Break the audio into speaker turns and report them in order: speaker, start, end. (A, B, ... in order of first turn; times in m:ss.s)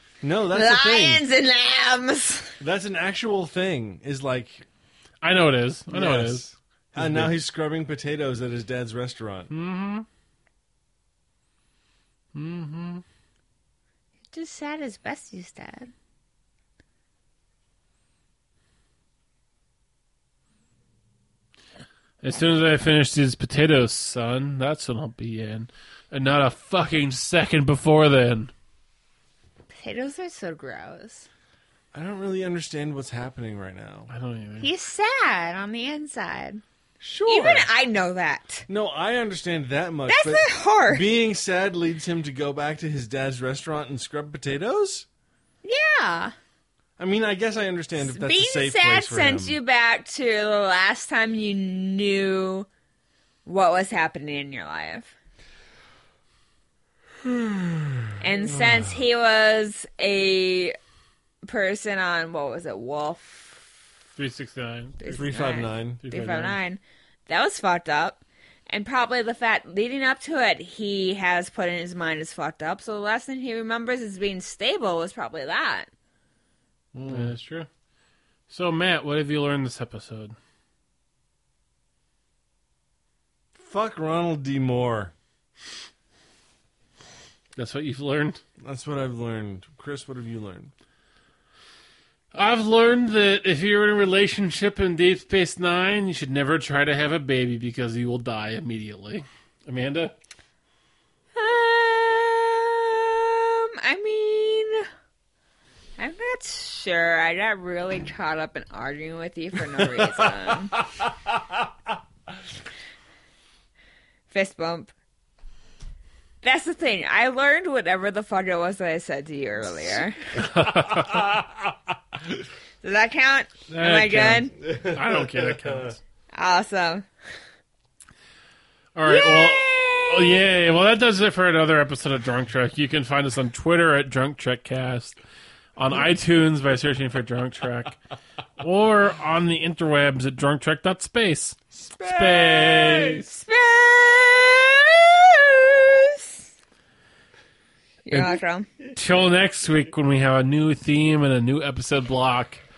0:00.2-0:01.2 A
0:00.5-0:02.6 B
0:02.6-0:04.6 A
0:05.2-0:07.3 C
0:05.9-0:09.5 A
0:09.5-0:10.0 C
0:12.3-0:13.0 C
0:14.3-0:15.9 B
0:22.2-0:28.5 C
0:29.7-0:31.3 B
0:31.9-0:34.1 A
0:34.1-0:34.7 C
0:34.6-0:36.6 B
0:37.0-0:37.7 A
0:37.3-0:38.6 B
0:38.7-0:45.1 A
0:40.1-0:41.0 B
0:45.6-0:46.3 B
0:47.0-0:49.6 A
0:48.0-0:52.7 B
0:53.4-0:55.1 B
0:57.2-0:59.0 A
0:58.2-1:00.8 B
1:01.4-1:03.6 B
1:04.2-1:05.0 C
1:05.0-1:15.9 B
1:05.1-1:06.0 A
1:06.0-1:06.6 C
1:16.9-1:17.3 A
1:17.0-1:17.7 C
1:18.5-1:20.3 C
1:23.6-1:25.1 A
1:27.6-1:28.4 C
1:28.6-1:30.7 A
1:32.3-1:40.1 C
1:41.3-1:44.8 B
1:46.0-1:50.8 B
1:54.3-1:54.9 B
1:56.4-2:00.5 B
2:00.4-2:01.2 C
2:00.8-2:01.6 A
2:02.8-2:04.5 B
2:03.7-2:06.0 C
2:04.6-2:06.0 A
2:06.3-2:07.0 B
2:08.9-2:15.2 C
2:09.0-2:10.4 B
2:15.8-2:18.0 C
2:18.6-2:23.3 C
2:21.7-2:23.2 A
2:23.3-2:26.4 B
2:28.0-2:28.7 B
2:28.1-2:28.4 C
2:28.9-2:32.6 C